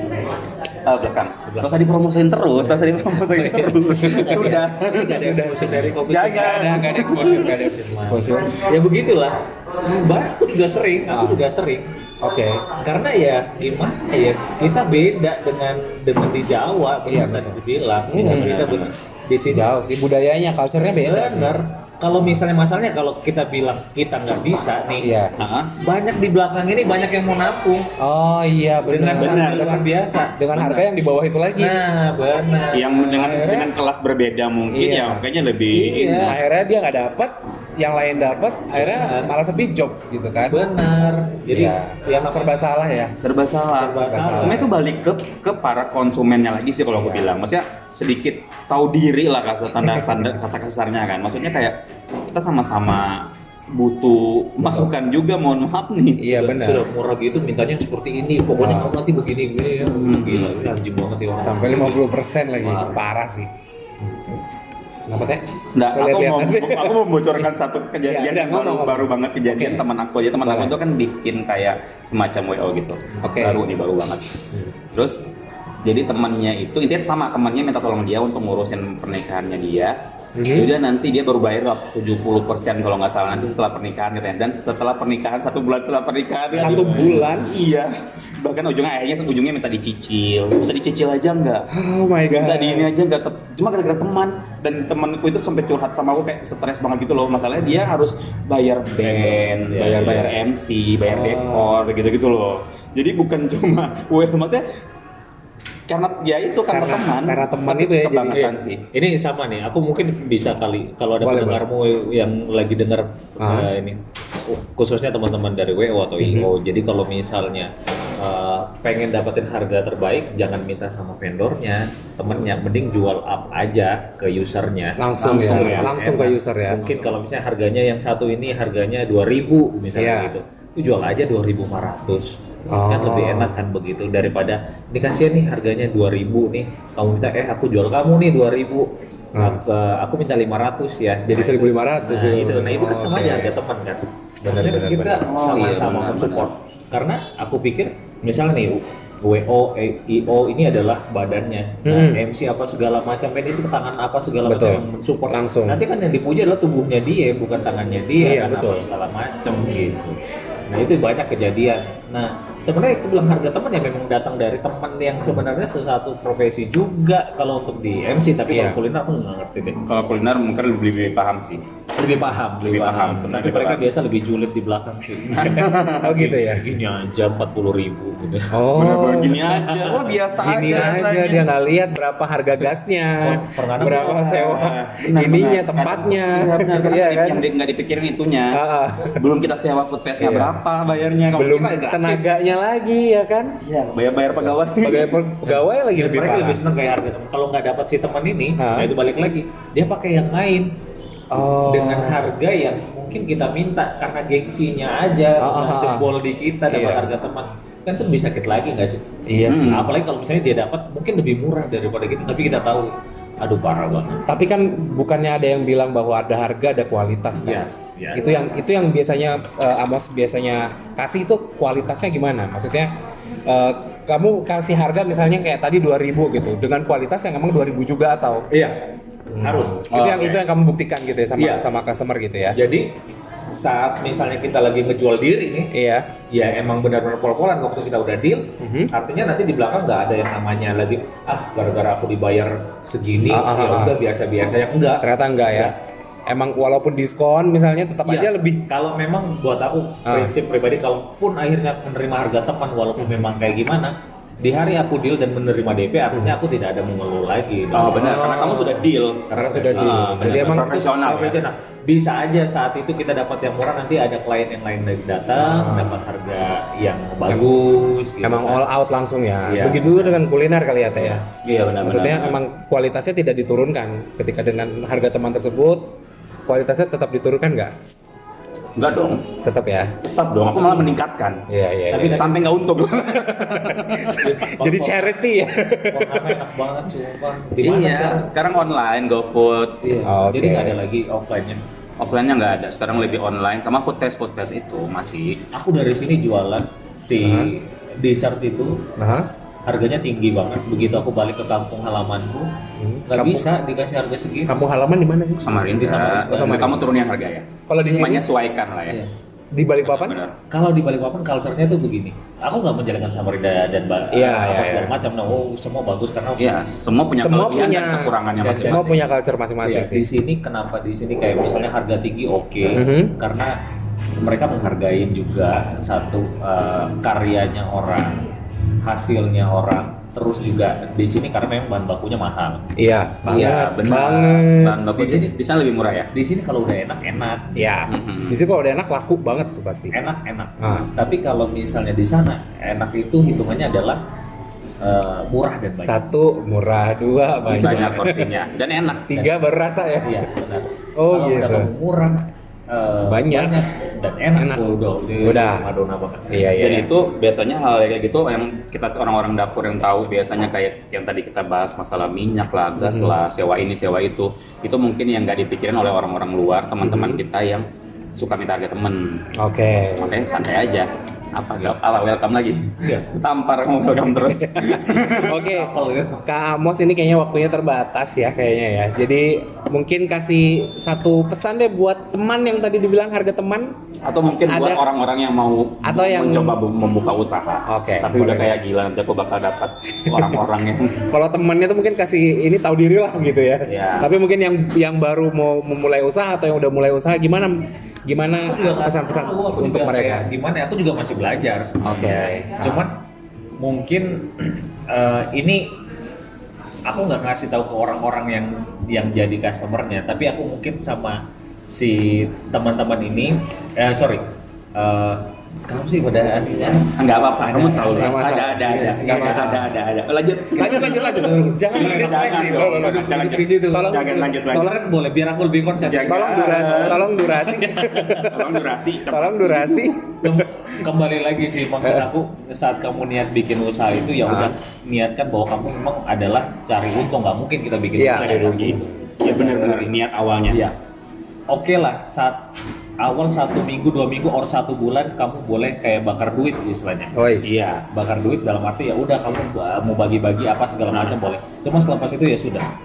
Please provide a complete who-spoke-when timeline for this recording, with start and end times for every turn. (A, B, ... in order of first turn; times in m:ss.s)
0:00.8-0:07.5 A
0:01.4-0:01.7 B
0:02.6-0:11.9 B
0:04.1-0:08.7 C
0:11.1-0:11.4 C
0:12.2-0:12.6 C
0:12.8-0:19.7 B
0:17.0-0:18.6 C
0:18.2-0:18.9 A
0:19.5-0:21.6 C
0:20.9-0:25.1 B
0:25.0-0:25.3 C
0:25.4-0:25.7 A
0:25.8-0:27.9 B
0:28.0-0:29.8 C
0:28.9-0:30.8 B
0:29.2-0:29.8 A
0:30.4-0:31.8 C
0:30.6-0:30.8 A
0:31.5-0:33.1 B
0:32.7-0:36.4 A
0:33.1-0:33.7 C
0:34.7-0:35.2 C
0:35.7-0:36.4 B
0:36.2-0:40.6 C
0:38.8-0:39.3 B
0:40.5-0:43.1 B
0:41.5-0:43.1 C
0:43.2-0:56.2 A
0:43.7-0:44.7 B
0:44.0-0:44.7 C
0:46.9-0:47.3 C
0:49.8-0:50.2 C
0:56.2-0:56.8 C
0:56.3-1:02.0 B
0:58.6-0:58.9 C
0:59.8-1:00.7 A
1:01.4-1:03.5 C
1:02.6-1:02.9 B
1:05.1-1:07.0 C
1:05.7-1:14.4 A
1:08.0-1:09.8 C
1:10.4-1:10.7 C
1:13.2-1:13.6 C
1:14.9-1:15.3 A
1:15.8-1:19.9 A
1:20.4-1:20.7 C
1:20.5-1:31.7 A
1:26.5-1:27.5 C
1:31.7-1:32.9 C
1:32.3-1:44.6 A
1:39.0-1:40.2 B
1:39.8-1:40.4 C
1:41.0-1:41.7 C
1:45.9-1:48.8 A
1:46.7-1:48.5 C
1:48.3-2:40.2 B
1:51.2-1:51.6 C
1:53.4-1:53.7 C
1:56.2-1:56.5 C
2:05.0-2:06.9 C
2:05.2-2:06.0 A
2:10.0-2:10.3 C
2:12.7-2:13.5 C
2:19.3-2:19.6 C
2:21.2-2:23.5 C
2:24.4-2:25.3 C
2:25.2-2:26.5 A
2:31.8-2:32.2 C
2:34.4-2:35.8 C
2:38.2-2:38.8 C
2:40.7-2:49.8 B
2:48.5-2:48.8 C
2:49.8-2:51.6 A
2:52.0-2:58.6 B
2:52.6-2:53.9 A
2:55.3-2:56.2 A
2:55.4-2:56.7 C
2:58.5-2:59.6 C
2:58.7-3:01.5 A
2:59.5-3:01.0 B
3:00.4-3:07.4 C
3:03.2-3:04.3 B
3:03.8-3:08.6 A
3:08.5-3:09.2 C
3:09.1-3:12.2 A
3:10.2-3:10.6 C
3:11.3-3:13.6 C
3:13.6-3:15.2 A
3:14.8-3:16.6 C
3:15.4-3:20.7 B
3:18.6-3:18.9 C
3:21.3-3:22.3 C
3:21.6-3:34.3 B
3:25.4-3:26.1 C
3:26.7-3:27.1 C
3:29.2-3:29.8 C
3:29.5-3:29.9 A
3:34.3-3:42.9 C
3:37.4-3:38.3 B
3:43.4-3:48.5 C
3:48.5-3:50.2 B
3:49.3-3:52.6 C
3:49.9-3:50.4 A
3:51.4-3:51.7 B
3:52.5-3:53.0 B
3:53.5-3:55.7 B
3:55.7-3:56.1 C
3:56.3-4:05.7 B
3:58.6-3:58.9 C
4:03.3-4:04.0 C
4:05.0-4:05.7 C
4:06.3-4:08.7 C
4:08.0-4:18.2 B
4:10.0-4:10.3 C
4:13.0-4:13.3 C
4:17.7-4:21.4 A
4:17.9-4:20.7 C
4:19.3-4:28.6 B
4:25.4-4:26.0 C
4:27.3-4:27.5 C
4:28.2-4:31.2 C
4:29.4-4:30.2 B
4:30.9-4:31.2 B
4:31.4-4:32.4 A
4:31.8-4:36.0 C
4:36.5-4:37.7 C
4:38.8-4:39.3 A
4:39.4-4:40.0 C
4:40.0-4:41.4 A
4:41.5-4:42.3 C
4:41.9-4:42.4 B
4:42.0-4:44.2 A
4:43.1-4:46.4 C
4:44.2-4:45.1 B
4:45.9-4:48.3 B
4:47.6-4:49.8 A
4:49.8-4:51.6 B
4:50.0-4:50.8 C
4:52.0-4:55.4 A
4:55.5-4:58.9 B
4:57.2-4:57.5 C
4:59.0-4:59.3 C
4:59.6-5:02.6 B
5:02.8-5:03.4 C
5:03.1-5:04.6 B
5:04.4-5:06.9 C
5:05.4-5:09.0 A
5:05.8-5:06.6 B
5:07.7-5:08.3 C
5:09.5-5:10.2 C
5:09.8-5:10.3 A
5:10.5-5:16.5 B
5:14.1-5:14.9 C
5:16.4-5:19.0 A
5:17.2-5:20.0 C
5:18.4-5:19.0 B
5:19.6-5:23.6 B
5:22.7-5:23.1 C
5:24.2-5:28.2 B
5:28.8-5:32.7 B
5:32.8-5:34.8 C
5:33.2-5:33.7 B
5:33.2-5:36.1 A
5:34.9-5:35.3 B
5:36.1-5:37.7 B
5:37.6-5:39.9 C
5:37.9-5:38.4 A
5:39.9-5:44.0 B
5:40.6-5:40.9 C
5:44.8-5:46.0 B
5:45.8-5:48.3 C
5:47.4-5:48.1 B
5:47.5-5:49.3 A
5:49.0-5:50.3 C
5:50.0-5:56.5 B
5:51.0-5:51.7 C
5:53.1-5:53.6 C
5:54.4-5:55.7 C
5:56.3-5:56.9 C
5:56.6-6:09.3 A
6:02.8-6:03.2 C
6:06.8-6:07.2 C
6:09.4-6:10.2 C
6:10.0-6:15.4 A
6:12.8-6:13.1 B
6:14.3-6:23.7 C
6:15.1-6:16.2 B
6:24.0-6:31.1 A
6:24.5-6:24.8 C
6:25.8-6:26.6 C
6:27.6-6:28.6 C
6:30.0-6:30.4 C
6:31.1-6:40.3 C
6:33.6-6:34.1 A
6:38.4-6:43.0 B
6:41.8-6:42.8 C
6:41.9-6:42.2 A
6:43.6-6:45.8 B
6:46.8-6:59.7 B
6:57.0-7:04.7 A
6:57.9-6:59.7 C
7:00.5-7:04.8 C
7:00.6-7:08.3 B
7:05.8-7:07.0 A
7:06.0-7:08.4 C
7:08.2-7:10.0 A
7:09.1-7:10.4 C
7:10.2-7:19.9 B
7:11.8-7:12.1 C
7:14.2-7:14.5 C
7:18.0-7:19.0 C
7:18.1-7:20.6 A
7:20.5-7:20.8 B
7:21.5-7:22.5 B
7:23.0-7:27.1 B
7:27.1-7:27.5 C
7:27.4-7:27.8 A
7:27.9-7:32.7 B